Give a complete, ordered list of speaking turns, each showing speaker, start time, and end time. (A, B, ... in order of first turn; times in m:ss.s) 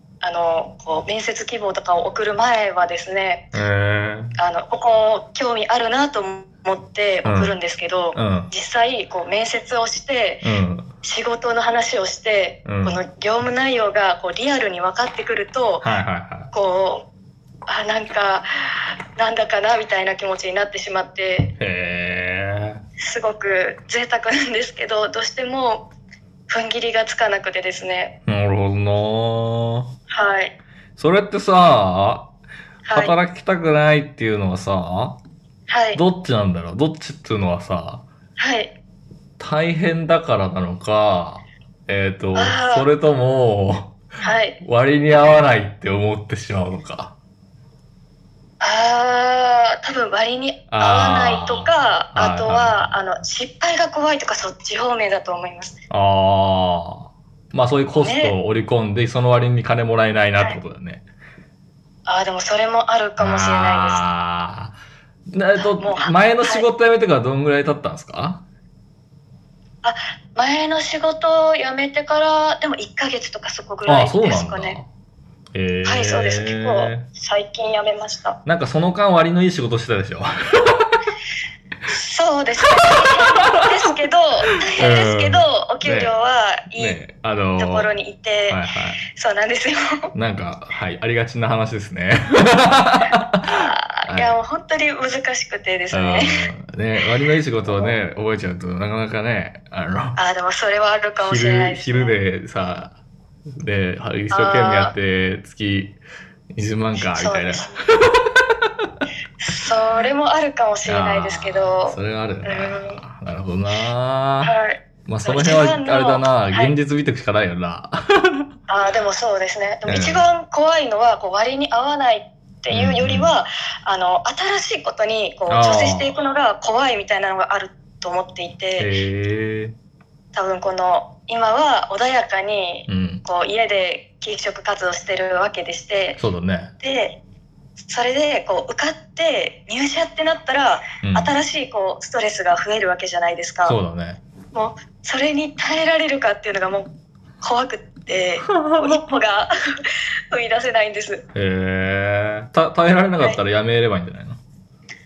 0:00.2-0:03.5 A
0:03.5-0:04.3 B
0:04.4-0:10.4 A
0:07.2-0:07.5 B
0:08.1-0:08.5 B
0:10.4-0:10.9 B
0:11.0-0:15.9 A
0:12.6-0:13.0 B
0:15.8-0:16.5 B
0:16.5-0:17.1 A
0:17.7-0:18.5 A
0:19.2-0:21.5 A
0:21.6-0:22.8 B
0:23.0-0:25.9 A
0:26.5-0:28.2 A
0:28.3-0:29.9 B
0:30.1-0:30.5 A
0:31.0-0:32.3 B
0:32.8-0:33.1 A
0:32.9-0:35.2 B
0:35.7-0:36.0 A
0:35.9-0:38.0 B
0:38.4-0:38.7 A
0:39.4-0:44.0 B
0:42.4-0:42.9 A
0:44.2-0:44.6 A
0:44.6-0:47.1 B
0:48.6-0:55.8 A
0:50.7-0:52.8 B
0:55.9-1:01.0 B
0:58.0-0:58.4 A
1:02.1-1:04.0 A
1:03.2-1:04.7 B
1:05.3-1:08.4 B
1:05.6-1:06.7 A
1:09.8-1:14.8 A
1:13.9-1:14.9 B
1:15.5-1:17.0 B
1:15.8-1:18.4 A
1:18.4-1:21.0 B
1:21.9-1:27.0 A
1:22.7-1:23.6 B
1:24.8-1:26.1 B
1:26.8-1:27.9 B
1:27.6-1:28.6 A
1:28.5-1:29.0 B
1:29.1-1:30.1 A
1:30.1-1:34.4 B
1:33.5-1:36.5 A
1:35.9-1:40.2 B
1:37.6-1:38.0 A
1:40.2-1:42.2 A
1:41.2-1:43.0 B
1:43.6-1:46.0 B
1:44.3-1:44.9 A
1:46.5-1:48.4 B
1:47.0-1:47.8 A
1:49.4-1:53.0 A
1:50.9-1:54.5 B
1:54.4-1:56.8 A
1:55.1-1:58.5 B
1:58.7-2:08.9 A
1:59.9-2:00.2 B
2:02.7-2:03.3 B
2:05.5-2:06.2 B
2:08.8-2:09.7 B
2:10.3-2:16.2 A
2:12.9-2:13.2 B
2:16.2-2:16.7 B
2:16.8-2:17.2 A
2:17.9-2:23.8 A
2:21.0-2:21.3 B
2:23.6-2:24.2 B
2:24.5-2:26.9 A
2:27.4-2:29.5 A
2:28.5-2:29.2 B
2:30.3-2:31.3 A
2:31.3-2:34.4 B